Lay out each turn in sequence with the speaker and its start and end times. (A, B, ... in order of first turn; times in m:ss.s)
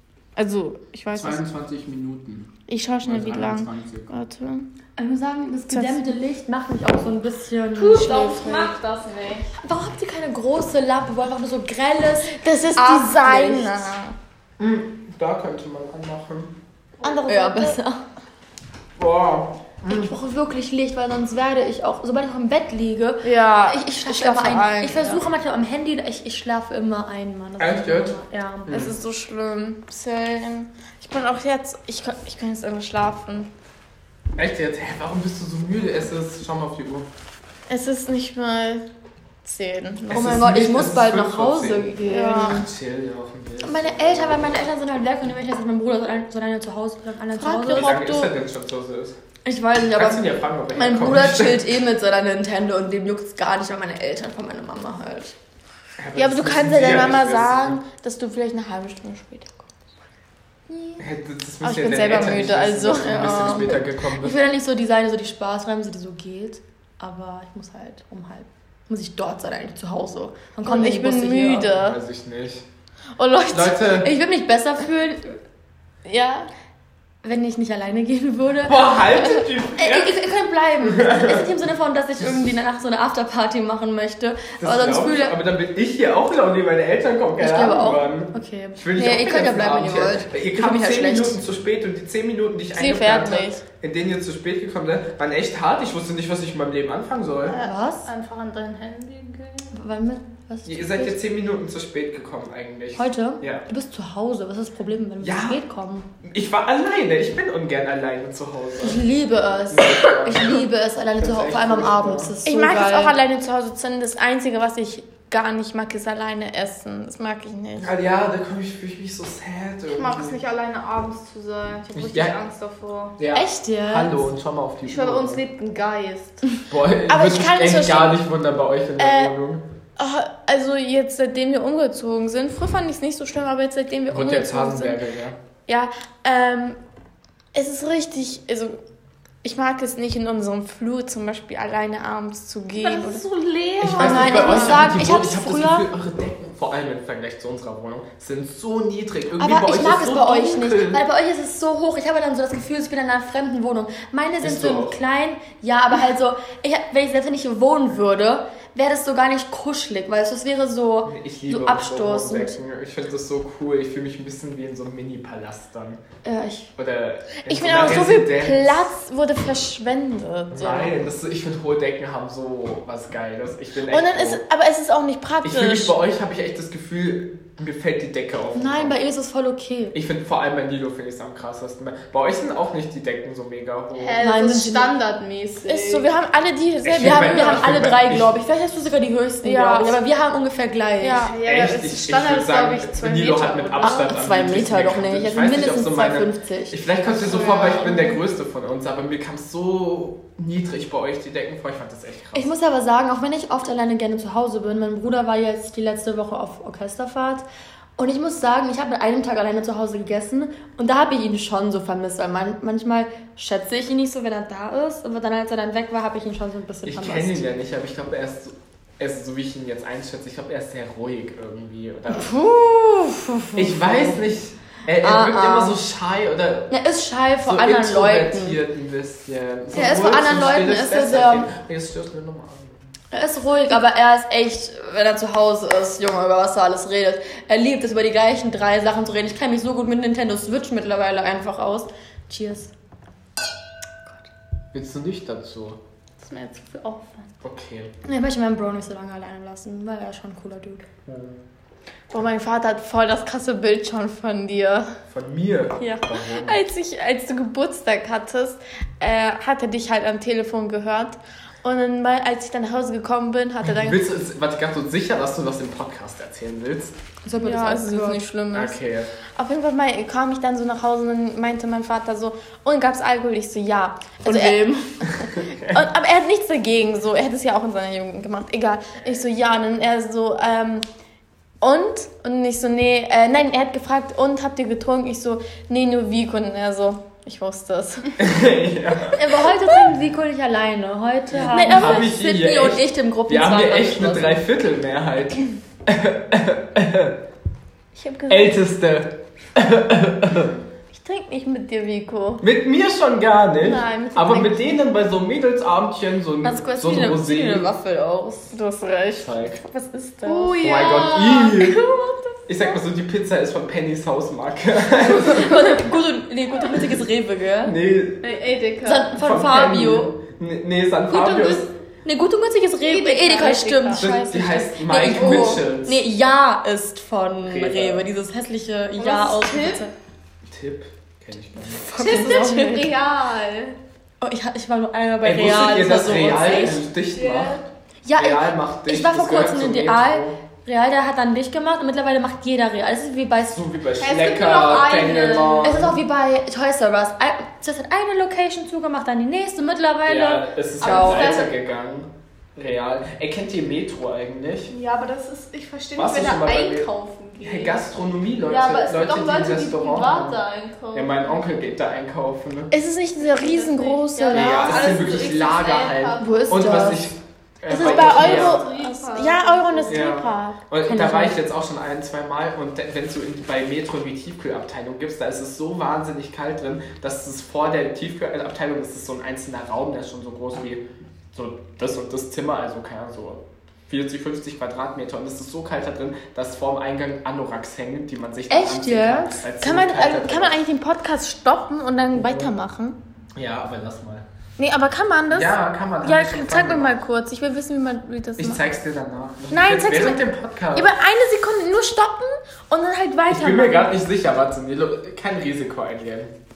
0:00.4-0:01.4 A
0:01.1-0:02.5 B
0:02.7-0:04.7 A
0:03.0-0:04.1 B
0:05.0-0:08.6 C
0:05.7-0:06.1 A
0:07.8-0:09.5 D
0:07.9-0:08.7 A
0:09.6-0:13.9 C
0:12.3-0:14.1 A
0:14.6-0:16.5 B
0:17.0-0:17.8 A
0:17.2-0:18.0 C
0:19.0-0:20.1 B
0:19.9-0:28.8 C
0:23.2-0:25.2 A
0:27.6-0:28.9 B
0:28.7-0:33.5 A
0:34.4-0:37.1 B
0:37.7-0:38.8 A
0:39.4-0:40.2 A
0:40.1-0:42.6 C
0:40.1-0:44.6 B
0:42.1-0:42.6 A
0:43.6-0:47.9 C
0:47.4-0:48.3 A
0:47.6-0:49.2 B
0:49.4-0:55.3 C
0:49.9-0:51.7 B
0:56.0-0:57.8 B
0:56.1-0:59.7 A
1:00.7-1:01.0 C
1:01.0-1:04.4 B
1:01.6-1:03.8 A
1:03.2-1:03.6 C
1:04.2-1:11.7 C
1:10.6-1:12.0 A
1:11.7-1:12.6 B
1:13.2-1:13.8 A
1:13.5-1:14.1 B
1:14.0-1:15.4 C
1:16.0-1:16.5 A
1:17.2-1:19.1 C
1:18.6-1:20.2 B
1:19.8-1:25.4 C
1:20.8-1:21.5 B
1:24.6-1:37.6 B
1:27.4-1:31.4 C
1:32.7-1:33.6 A
1:37.5-1:38.1 C
1:37.6-1:39.7 D
1:39.7-1:41.2 C
1:40.6-1:43.6 B
1:43.0-1:46.0 C
1:45.2-1:45.6 B
1:46.2-1:49.0 B
1:48.8-1:53.2 C
1:49.7-1:52.3 B
1:52.4-1:57.9 A
1:57.8-2:00.4 B
1:59.9-2:03.2 D
2:01.9-2:02.4 B
2:03.2-2:05.4 B
2:03.3-2:04.2 C
2:04.8-2:06.4 D
2:06.7-2:09.6 B
2:07.1-2:08.2 A
2:09.0-2:09.3 A
2:10.0-2:15.0 A
2:14.1-2:15.4 B
2:15.7-2:16.8 A
2:17.5-2:18.8 A
2:19.4-2:23.2 A
2:22.8-2:24.8 D
2:23.8-2:31.0 B
2:24.0-2:25.9 C
2:29.4-2:42.6 C
2:34.4-2:35.0 B
2:41.0-2:46.0 B
2:46.2-2:46.7 C
2:46.8-2:48.9 B
2:47.4-2:50.9 A
2:50.5-2:54.4 B
2:53.9-2:56.0 A
2:55.4-2:58.9 B
2:58.5-2:59.9 C
2:59.9-3:04.2 B
3:04.0-3:06.1 D
3:04.2-3:04.9 C
3:05.6-3:07.8 A
3:06.8-3:08.3 B
3:06.9-3:11.3 C
3:09.4-3:10.0 A
3:11.0-3:11.4 A
3:11.2-3:14.0 D
3:11.4-3:22.5 B
3:13.8-3:17.8 C
3:17.2-3:18.2 A
3:22.3-3:27.4 C
3:28.0-3:37.4 C
3:36.8-3:42.3 B
3:42.1-3:44.2 C
3:43.6-3:46.7 B
3:45.0-3:45.8 C
3:46.7-3:48.6 C
3:47.4-3:52.8 B
3:49.7-3:51.5 C
3:53.1-4:02.7 C
4:04.7-4:05.8 B
4:06.2-4:07.3 D
4:07.4-4:07.9 B
4:08.0-4:10.8 C
4:11.0-4:11.4 B
4:12.1-4:14.9 A
4:15.1-4:16.6 B
4:15.8-4:24.0 A
4:23.6-4:26.9 B
4:27.2-4:28.2 C
4:27.4-4:28.7 A
4:28.5-4:29.1 B
4:29.4-4:40.8 A
4:34.2-4:34.7 C
4:35.1-4:35.8 B
4:41.6-4:48.2 A
4:48.2-4:49.2 B
4:49.1-4:54.4 C
4:51.3-4:57.2 B
4:51.5-4:52.1 A
4:57.9-4:58.6 A
4:58.3-5:00.5 B
5:00.9-5:02.4 A
5:02.4-5:07.7 B
5:03.6-5:04.8 A
5:06.4-5:08.5 C
5:08.5-5:12.6 A
5:09.2-5:09.6 B
5:10.2-5:11.2 D
5:10.3-5:10.6 C
5:10.6-5:11.8 B
5:12.5-5:15.7 B
5:15.0-5:17.7 C
5:17.6-5:18.2 B
5:18.2-5:19.1 D
5:18.8-5:20.1 C
5:19.2-5:21.7 B
5:21.1-5:29.9 C
5:22.8-5:24.1 D
5:24.0-5:26.0 B
5:25.1-5:25.6 D
5:27.4-5:28.1 B
5:29.0-5:29.8 D
5:30.5-5:31.8 B
5:31.8-5:32.9 C
5:32.0-5:33.8 D
5:32.0-5:32.8 A
5:34.2-5:36.8 C
5:35.2-5:37.6 B
5:37.1-5:37.6 D
5:38.0-5:43.6 C
5:38.2-5:40.4 B
5:43.5-5:46.0 B
5:44.0-5:45.8 D
5:45.6-5:51.5 C
5:50.0-5:54.7 B
5:50.8-5:51.5 D
5:54.7-5:57.8 D
5:56.0-5:56.9 B
5:57.4-6:00.4 B
5:58.4-6:01.4 D
6:00.9-6:02.7 B
6:02.7-6:05.0 A
6:03.2-6:06.6 D
6:04.3-6:08.6 B
6:06.2-6:07.0 A
6:06.6-6:07.0 C
6:07.7-6:11.2 A
6:07.7-6:10.1 D
6:09.9-6:30.6 B
6:10.9-6:11.3 C
6:28.5-6:29.3 C
6:29.6-6:33.0 A
6:32.2-6:32.5 B
6:33.4-6:34.2 B
6:34.6-6:38.6 A
6:35.3-6:37.0 B
6:38.4-6:40.9 B
6:39.5-6:40.2 A
6:40.7-6:43.9 A
6:43.3-6:46.3 B